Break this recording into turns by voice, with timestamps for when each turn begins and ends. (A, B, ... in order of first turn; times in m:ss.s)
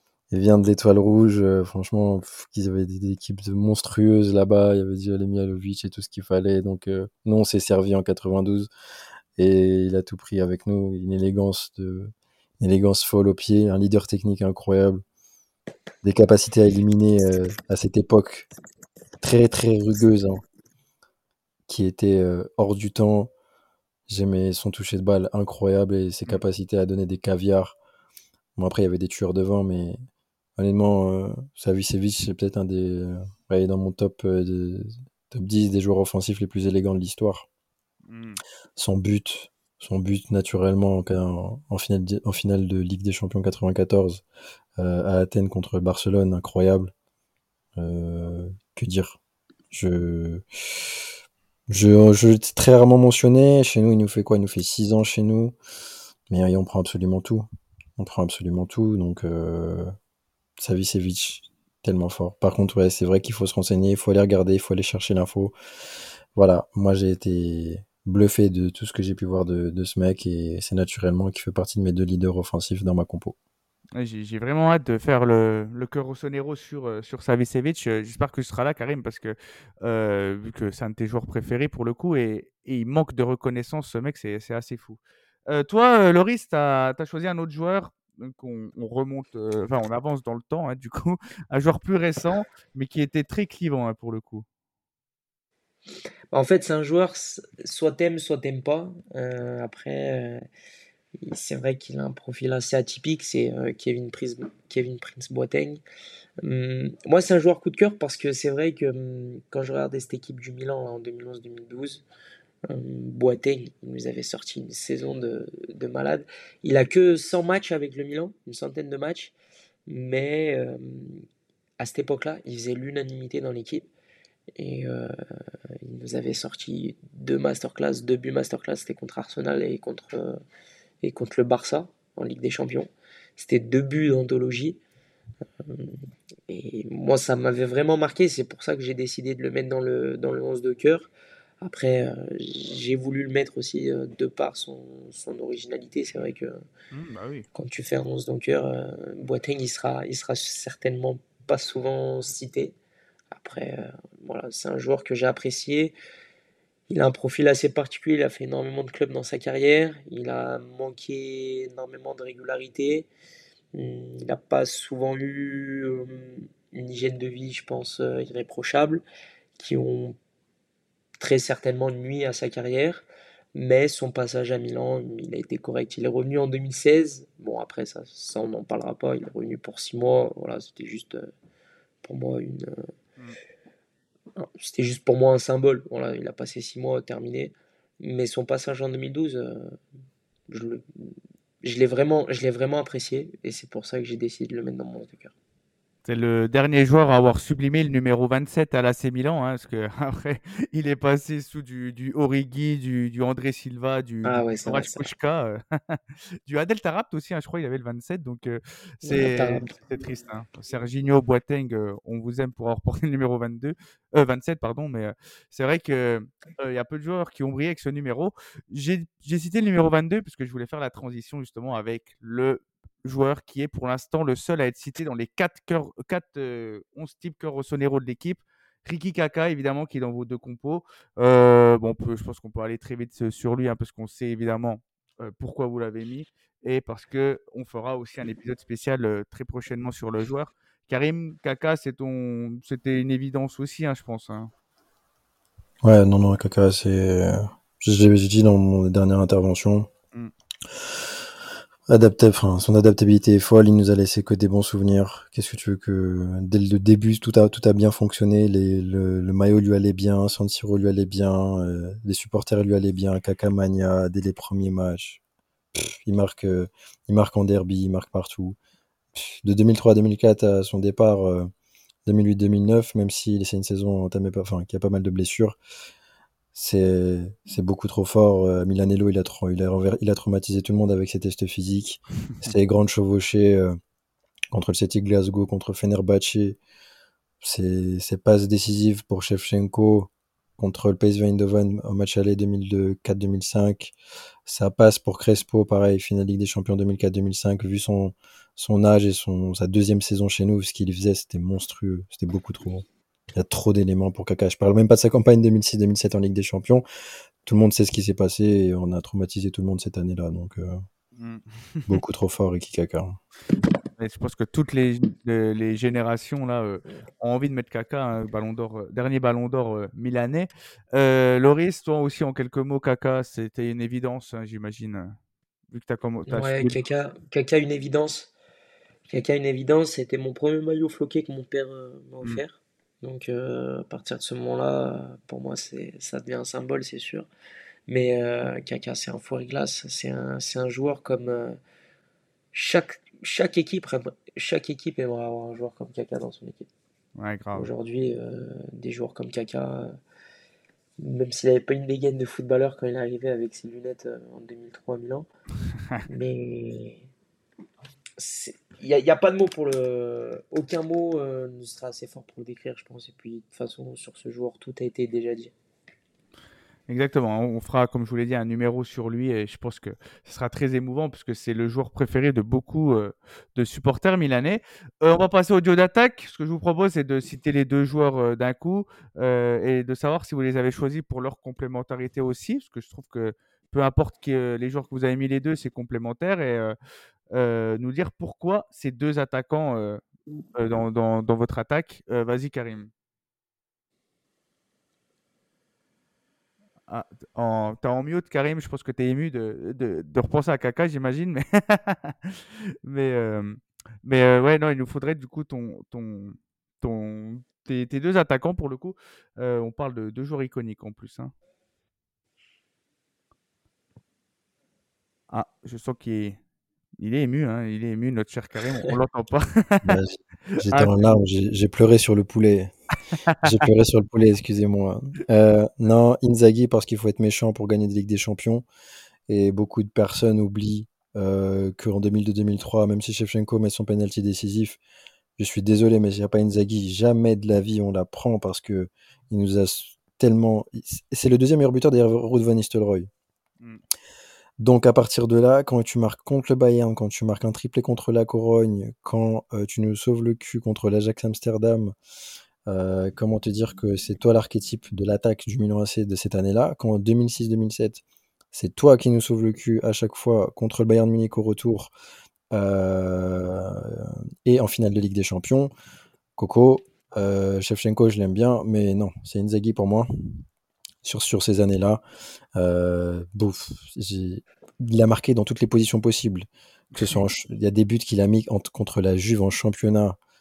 0:00.3-0:08.7 A
0:09.4-0:15.0 A
0:16.0-0:18.5 A
0:19.2-0:20.4 A
0:21.7-0:23.3 A
0:24.1-0:27.8 A
0:28.6-0:30.0 A
0:30.6-0:37.5 A
0:38.1-0:38.4 B
0:38.8-0:44.2 A
0:44.8-0:46.9 A
0:47.8-0:49.2 A
0:49.7-0:51.0 A
0:51.7-0:55.6 A
0:56.3-0:57.5 A
0:58.0-0:59.9 A
1:00.6-1:05.6 A
1:06.3-1:13.4 A
1:14.0-1:34.5 B
1:36.3-1:40.4 C
1:41.2-1:45.8 C
1:46.4-1:52.0 C
1:52.7-1:59.3 C
1:59.9-2:01.2 C
2:01.8-2:03.9 C
2:04.6-2:05.1 C
2:05.8-2:10.4 C
2:11.0-2:14.8 C
2:15.7-2:16.0 C
2:16.5-2:21.1 C
2:21.6-2:26.6 C
2:26.9-2:27.5 B
2:27.6-2:32.8 C
2:33.3-2:36.0 C
2:36.9-2:43.1 C
2:43.7-2:49.0 C
2:49.6-2:50.2 C
2:51.2-3:01.3 C
3:02.0-3:02.9 C
3:04.4-3:09.8 C
3:10.5-3:15.3 C
3:16.0-4:04.5 B
3:24.2-3:25.1 C
3:29.0-3:29.7 C
4:05.8-4:09.9 A
4:11.9-4:25.2 A
4:25.7-4:28.6 A
4:29.2-4:31.5 A
4:32.1-4:35.6 A
4:36.5-4:43.8 A
4:44.5-4:46.6 A
4:47.4-4:54.0 A
4:54.5-5:06.8 A
5:07.4-5:10.8 A
5:11.2-5:12.0 B
5:11.9-5:13.2 A
5:14.0-5:25.2 B
5:25.7-5:26.8 B
5:26.3-5:28.3 C
5:29.1-5:37.3 C
5:37.9-5:41.6 C
5:42.5-5:46.7 C
5:47.2-5:47.7 B
5:47.6-5:49.9 C
5:51.0-5:55.3 C
5:56.1-5:57.1 C
5:58.2-6:05.5 C
6:06.9-6:26.8 B
6:27.3-6:30.0 B
6:30.6-6:32.9 B
6:36.9-6:51.3 B
6:55.3-6:56.4 B
6:57.0-7:00.0 B
6:59.8-7:02.7 A
7:00.6-7:01.2 B
7:03.4-7:08.6 A
7:09.3-7:14.8 A
7:15.4-7:23.1 A
7:24.6-7:32.0 A
7:32.7-7:41.9 A
7:42.5-7:45.7 A
7:46.4-7:50.1 A
7:51.0-7:52.0 A
7:52.6-8:00.2 A